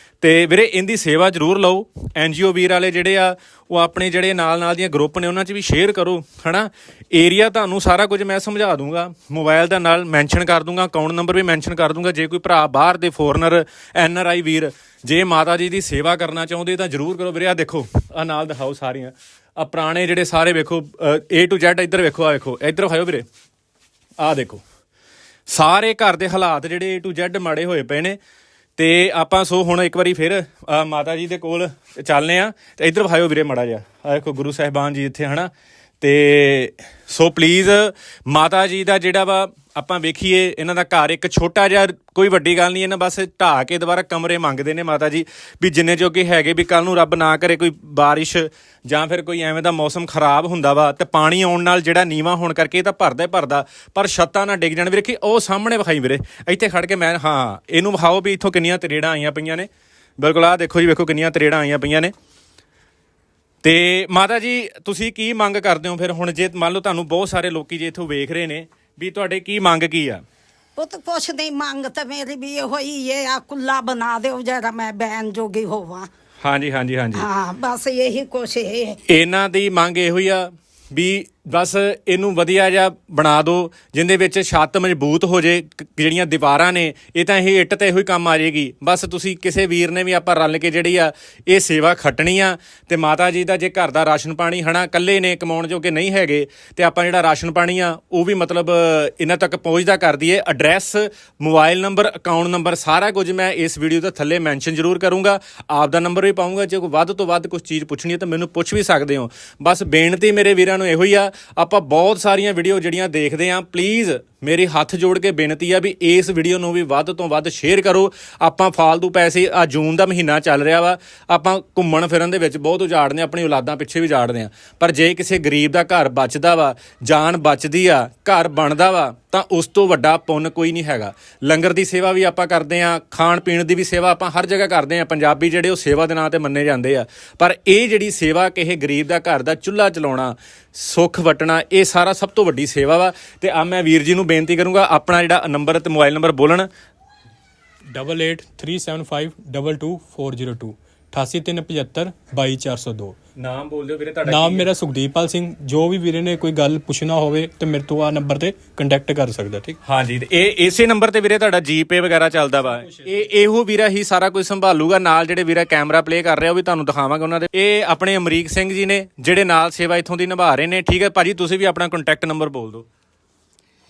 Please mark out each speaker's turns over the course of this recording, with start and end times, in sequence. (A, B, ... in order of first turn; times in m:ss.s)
0:00.2-0:23.2 A
0:24.2-0:24.6 A
0:25.5-0:28.2 A
0:28.8-0:35.5 A
0:36.0-0:59.7 A
1:00.2-1:02.1 A
1:03.6-1:10.2 A
1:10.8-1:16.1 B
1:16.4-1:17.3 A
1:17.1-1:19.0 B
1:19.1-2:26.7 A
2:27.9-2:33.2 C
2:33.4-2:34.7 A
2:34.2-2:39.8 C
2:39.8-2:52.9 A
2:42.8-2:43.1 C